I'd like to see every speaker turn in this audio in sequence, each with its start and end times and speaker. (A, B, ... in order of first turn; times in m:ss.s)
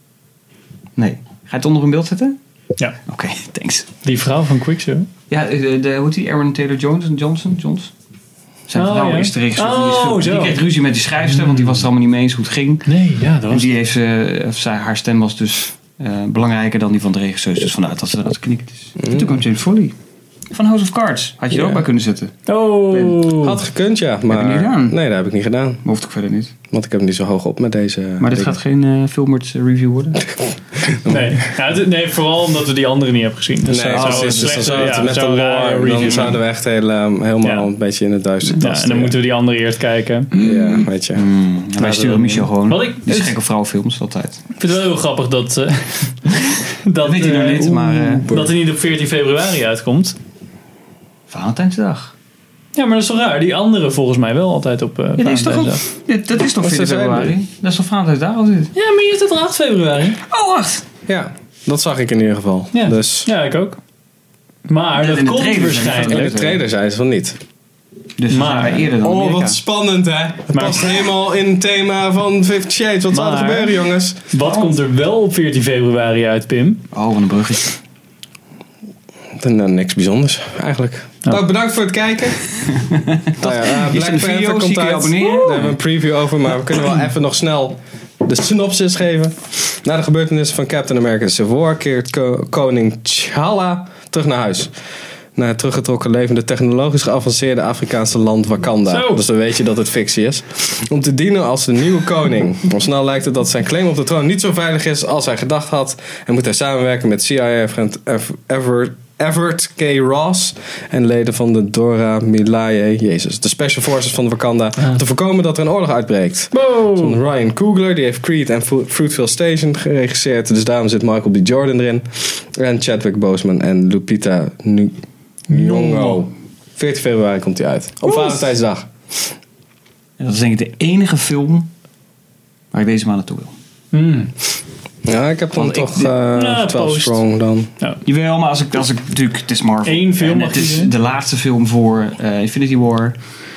0:01.0-0:02.4 A
0:03.0-0:03.9 A
0:04.0-0:05.1 B
0:05.3-0:07.9 A
0:08.7-0:19.9 A
0:08.8-0:10.6 B
0:12.8-0:13.7 B
0:19.0-0:19.3 C
0:20.5-0:22.3 A
0:22.5-0:23.6 B
0:23.0-0:25.8 C
0:24.3-0:25.0 A
0:25.8-0:26.5 A
0:26.7-0:28.5 C
0:28.2-0:30.3 A
0:30.8-0:31.4 C
0:31.1-0:36.4 B
0:33.7-0:39.2 C
0:33.9-0:35.1 A
0:36.0-0:36.3 A
0:37.4-0:37.7 B
0:38.6-0:40.6 B
0:40.4-0:41.2 C
0:41.1-0:44.4 A
0:41.8-0:42.5 C
0:42.6-0:43.3 B
0:44.6-0:50.2 B
0:47.0-0:48.5 A
0:51.3-0:52.1 A
0:52.7-0:55.8 B
0:55.2-0:58.7 A
0:56.6-0:57.4 C
0:58.7-1:00.2 B
1:00.3-1:00.8 A
1:01.1-1:03.3 C
1:02.7-1:03.8 B
1:04.7-1:06.3 B
1:04.9-1:06.6 A
1:06.0-1:07.4 C
1:08.2-1:09.6 A
1:08.3-1:08.9 B
1:09.0-1:14.2 C
1:10.5-1:11.0 B
1:13.1-1:16.8 B
1:14.4-1:14.8 A
1:16.9-1:17.8 A
1:19.4-1:22.5 C
1:22.7-1:25.8 A
1:23.4-1:34.7 C
1:35.3-2:04.9 C
1:38.9-1:39.2 B
1:56.5-1:57.2 B
2:05.5-2:08.9 C
2:05.5-2:06.2 B
2:08.0-2:08.4 B
2:10.2-2:11.7 A
2:12.7-2:13.5 A
2:13.9-2:14.3 B
2:15.0-2:17.7 C
2:15.5-2:16.2 A
2:16.3-2:17.2 B
2:18.0-2:23.2 A
2:19.8-2:20.9 B